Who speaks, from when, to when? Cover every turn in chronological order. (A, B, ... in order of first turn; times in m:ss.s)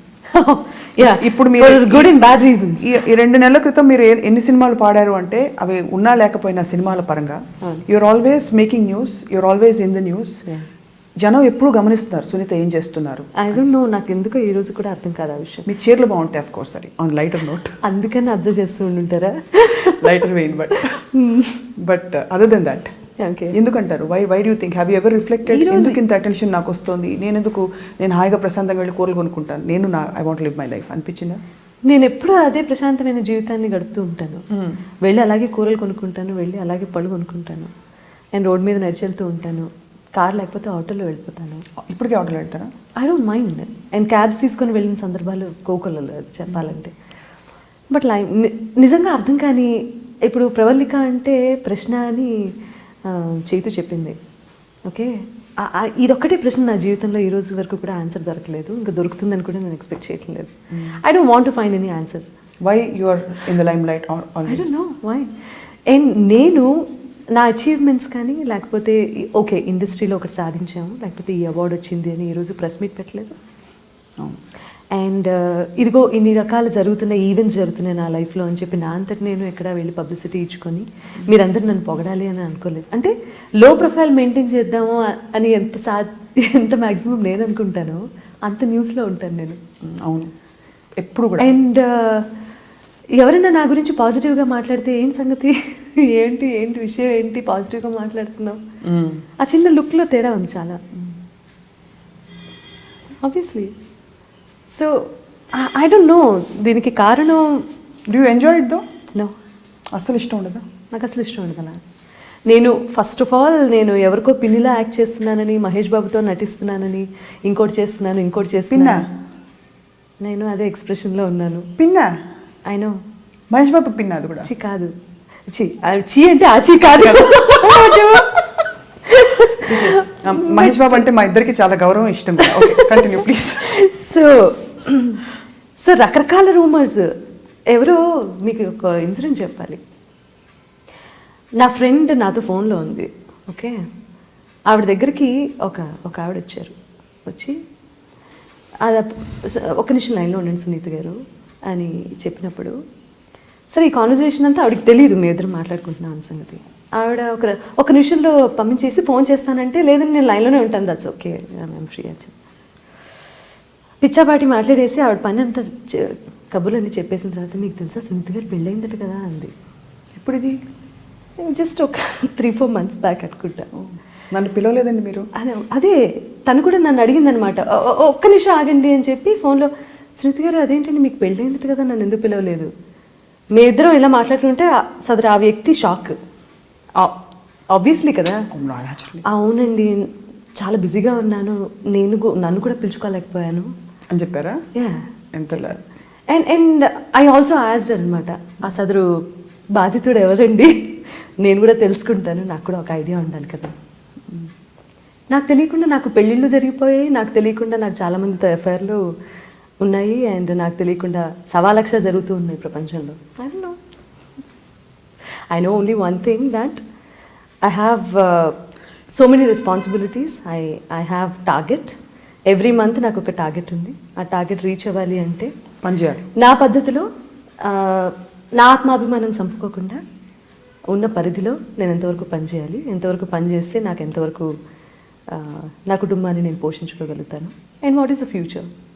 0:00.3-0:02.9 A
0:01.0-0:02.2 B
0:02.8-0:10.4 B
0:11.2-0:13.4 B
0:13.4-0:15.7 A
0:15.7-0:17.8 B
0:17.8-0:21.6 A
0:19.8-0:21.0 B
0:21.8-0:22.9 B
0:23.2-0:23.6 A
0:23.5-0:31.4 B
0:25.5-0:26.0 A
0:31.9-0:34.4 A
0:34.5-0:34.8 B
0:35.0-0:37.7 A
0:38.3-0:41.6 A
0:41.8-0:42.7 B
0:43.0-0:46.9 A
0:47.9-0:52.4 A
0:53.0-0:54.2 A
0:54.9-1:02.2 A
1:02.6-1:04.8 B
1:04.5-1:05.3 A
1:05.9-1:13.4 A
1:14.9-1:29.6 A
1:29.8-1:30.3 B
1:31.0-1:31.5 B
1:31.4-1:32.3 A
1:33.2-1:38.6 A
1:38.8-1:39.2 B
1:39.4-1:40.9 A
1:43.2-1:43.7 A
1:44.7-1:47.7 A
1:48.1-1:48.8 B
1:49.9-1:50.6 B
1:50.9-1:51.8 A
1:52.5-1:59.1 A
1:58.7-1:59.1 B
2:00.2-2:01.7 A
2:01.8-2:02.1 B
2:02.7-2:03.0 A
2:03.5-2:04.5 B
2:04.4-2:04.9 A
2:05.5-2:11.0 A
2:06.9-2:08.2 B
2:09.6-2:13.7 B
2:12.4-2:15.2 A
2:15.8-2:17.1 A
2:17.7-2:19.8 A
2:21.6-2:23.8 A
2:24.7-2:26.8 A
2:27.3-2:27.6 A
2:28.8-2:31.2 A
2:31.7-2:32.8 A
2:33.7-2:42.3 A
2:44.0-2:49.5 A
2:50.2-2:50.6 B
2:51.4-2:53.7 A
2:53.8-2:55.3 B
2:55.4-3:02.7 A
3:03.6-3:06.2 A
3:07.7-3:08.5 A
3:08.5-3:09.2 B
3:09.3-3:10.1 A
3:10.6-3:13.7 A
3:14.1-3:14.6 B
3:14.8-3:15.0 A
3:15.3-3:15.8 B
3:16.3-3:19.1 A
3:19.8-3:23.7 A
3:25.3-3:29.0 A
3:29.8-3:33.8 A
3:35.5-3:36.8 A
3:37.6-3:38.6 A
3:39.1-3:42.0 A
3:42.5-3:45.5 A
3:45.8-3:46.3 B
3:46.4-3:47.1 A
3:47.6-3:50.0 A
3:50.9-3:54.5 A
3:55.3-3:58.7 A